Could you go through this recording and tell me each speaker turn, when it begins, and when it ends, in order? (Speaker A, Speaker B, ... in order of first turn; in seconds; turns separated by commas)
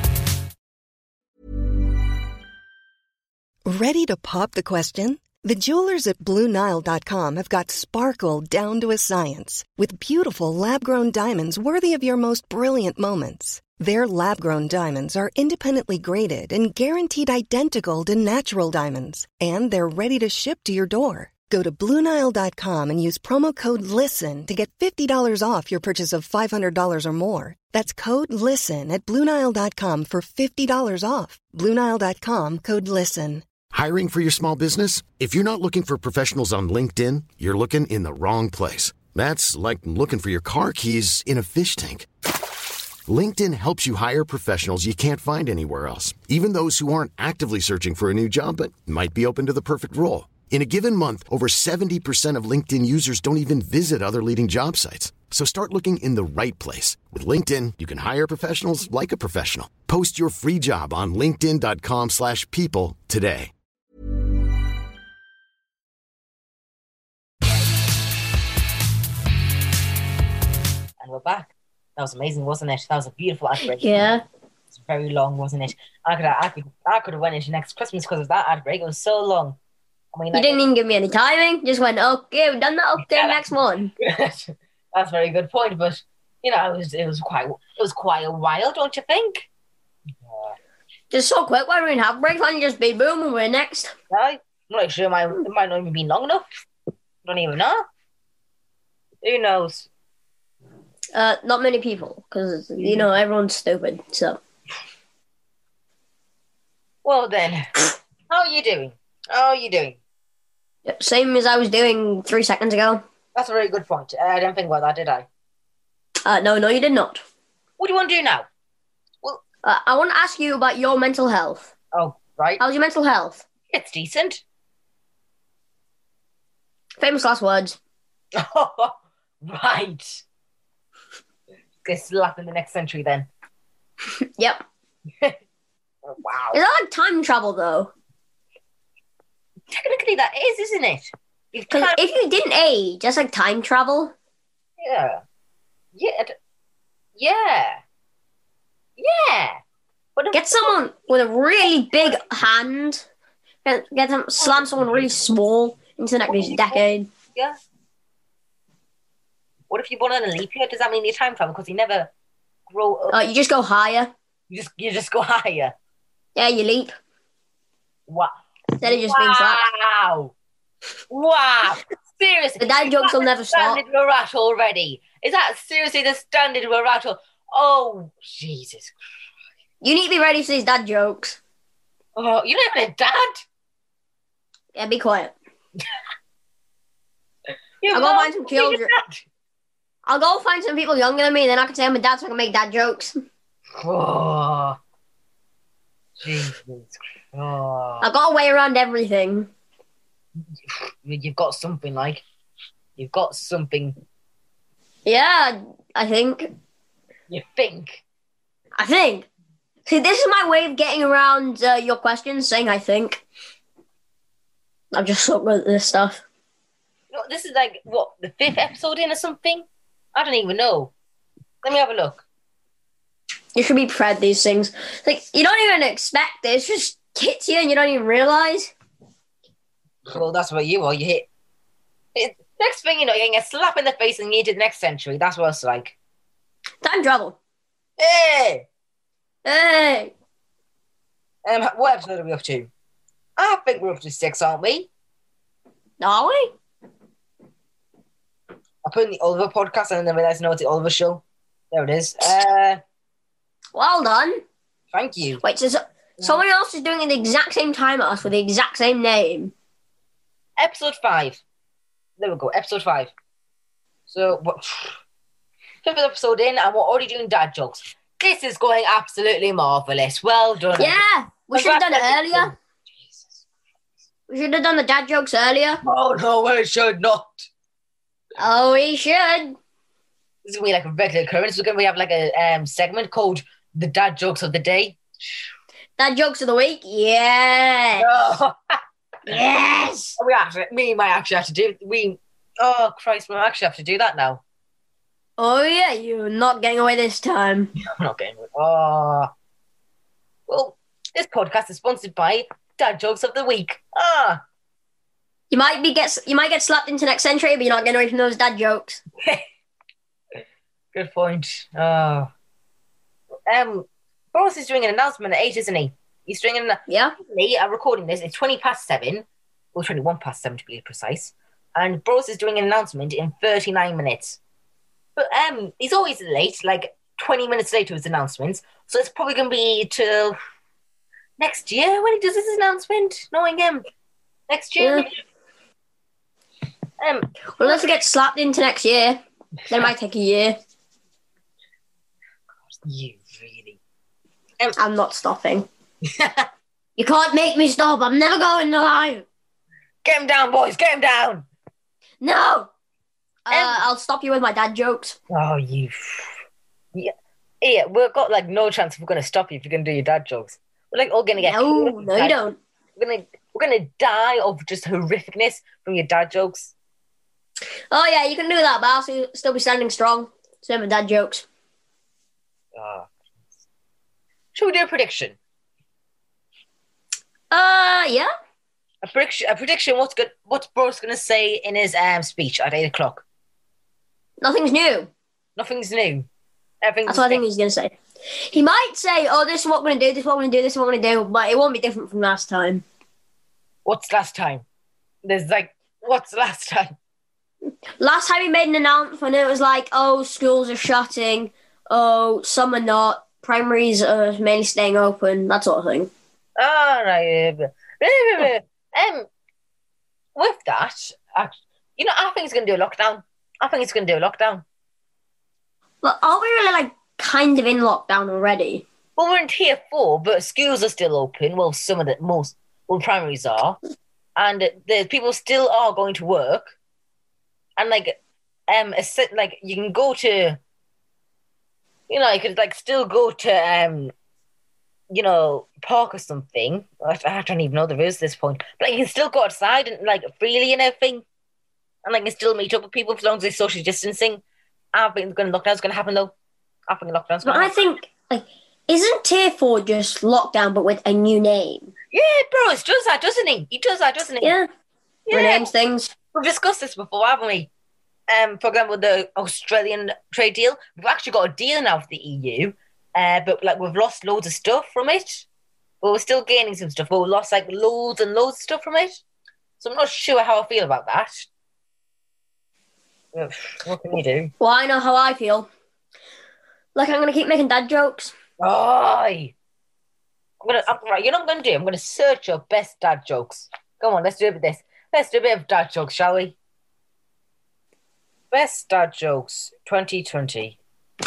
Speaker A: 3.6-33.5, Speaker B: 33.7-42.1, Speaker B: 43.1-63.5, Speaker C: 71.0-74.1, Speaker D: 73.7-74.2, Speaker C: 74.7-79.6, Speaker C: 80.1-80.6, Speaker D: 80.3-83.9, Speaker C: 83.0-83.4, Speaker C: 84.0-89.5, Speaker C: 90.2-90.5, Speaker D: 91.1-93.9, Speaker C: 94.1-96.4, Speaker C: 97.2-97.8, Speaker C: 99.2-99.9, Speaker D: 101.1-104.4, Speaker C: 102.8-103.1, Speaker C: 107.0-110.0, Speaker D: 110.8-113.0, Speaker C: 113.3-115.2, Speaker D: 116.2-117.2, Speaker C: 117.8-118.5, Speaker D: 119.6-121.7, Speaker C: 121.9-122.6, Speaker D: 122.6-123.4, Speaker C: 123.7-124.4, Speaker D: 127.0-127.8, Speaker C: 128.3-130.2, Speaker C: 131.8-133.3, Speaker D: 134.4-134.6, Speaker C: 136.1-136.6, Speaker D: 136.5-137.9, Speaker C: 139.7-142.0, Speaker D: 141.7-144.1, Speaker C: 144.8-145.2, Speaker C: 145.9-146.3, Speaker C: 147.2-147.8, Speaker C: 149.0-149.6, Speaker C: 150.2-150.7, Speaker D: 150.3-153.0, Speaker D: 153.6-157.1, Speaker C: 154.4-155.0, Speaker C: 156.3-156.8, Speaker C: 159.7-162.1, Speaker C: 162.7-163.2, Speaker D: 163.1-164.1, Speaker C: 164.5-165.7, Speaker D: 166.3-166.9, Speaker C: 168.1-170.3, Speaker D: 168.8-169.6, Speaker C: 171.1-178.9, Speaker D: 172.6-173.8, Speaker D: 179.8-181.4, Speaker C: 182.2-183.4, Speaker D: 184.7-185.3, Speaker C: 187.8-189.2, Speaker D: 187.9-188.9, Speaker D: 190.1-193.2, Speaker C: 193.8-194.8, Speaker C: 196.2-198.1, Speaker D: 198.0-199.5, Speaker C: 200.7-202.2, Speaker C: 203.0-204.0, Speaker D: 205.1-206.5, Speaker C: 207.3-208.0, Speaker D: 208.8-209.3, Speaker D: 209.8-213.2, Speaker D: 214.9-216.2, Speaker C: 217.1-220.9, Speaker C: 221.6-222.2, Speaker D: 223.5-228.7, Speaker C: 230.1-231.2, Speaker C: 232.1-235.9, Speaker D: 236.8-237.4, Speaker C: 238.0-238.7, Speaker D: 239.4-240.1, Speaker C: 241.4-242.7, Speaker C: 243.4-244.9, Speaker D: 246.0-246.5, Speaker C: 248.8-252.8, Speaker D: 253.7-254.4, Speaker C: 254.9-255.4, Speaker D: 255.4-259.5, Speaker C: 260.6-261.4, Speaker C: 262.2-263.1, Speaker C: 264.1-264.9, Speaker C: 265.8-271.0, Speaker D: 270.8-272.5, Speaker C: 271.5-273.4, Speaker D: 274.3-275.8, Speaker C: 275.8-277.5, Speaker D: 278.4-279.6, Speaker C: 280.4-285.4, Speaker D: 286.0-288.1, Speaker C: 288.0-288.8, Speaker D: 289.3-290.2, Speaker C: 290.2-294.4, Speaker D: 295.4-297.7, Speaker C: 297.8-299.3, Speaker C: 300.5-304.4, Speaker D: 305.5-309.0, Speaker C: 310.9-312.3, Speaker C: 313.5-324.4, Speaker D: 316.9-317.1, Speaker C: 325.1-330.4, Speaker C: 331.4-333.9, Speaker C: 334.5-335.1, Speaker D: 334.8-335.1, Speaker C: 337.0-337.9, Speaker D: 337.6-340.6, Speaker C: 342.8-343.8, Speaker D: 344.8-345.7, Speaker C: 346.0-346.5, Speaker D: 347.0-349.2, Speaker C: 350.0-351.4, Speaker D: 352.2-352.7, Speaker D: 353.5-355.2, Speaker C: 353.5-353.8, Speaker C: 355.3-356.4, Speaker C: 356.9-362.4, Speaker D: 361.4-362.6, Speaker C: 363.0-366.7, Speaker D: 367.9-371.4, Speaker C: 372.7-373.1, Speaker C: 374.5-375.4, Speaker D: 377.5-378.3, Speaker C: 379.0-383.2, Speaker D: 384.4-385.1, Speaker C: 385.6-386.3, Speaker C: 386.8-387.4, Speaker D: 387.1-392.8, Speaker C: 393.8-394.6, Speaker C: 395.2-396.9, Speaker D: 398.0-406.1, Speaker C: 406.6-409.3, Speaker C: 410.4-414.6, Speaker D: 416.0-418.8, Speaker C: 419.2-423.8, Speaker C: 424.4-426.7, Speaker C: 427.8-428.2, Speaker C: 428.7-430.6, Speaker C: 432.1-434.1, Speaker C: 435.1-441.2, Speaker C: 442.0-444.4, Speaker C: 444.9-446.3, Speaker C: 446.9-447.7, Speaker D: 447.4-451.9, Speaker C: 452.1-454.6, Speaker D: 454.4-454.7, Speaker C: 455.3-455.7, Speaker D: 455.3-456.1, Speaker C: 456.3-457.7, Speaker C: 458.3-465.4, Speaker C: 466.0-469.2, Speaker C: 469.8-471.5, Speaker C: 473.3-474.5, Speaker D: 474.6-475.7, Speaker D: 476.9-478.3, Speaker C: 478.6-479.5, Speaker C: 480.6-486.6, Speaker C: 488.5-490.8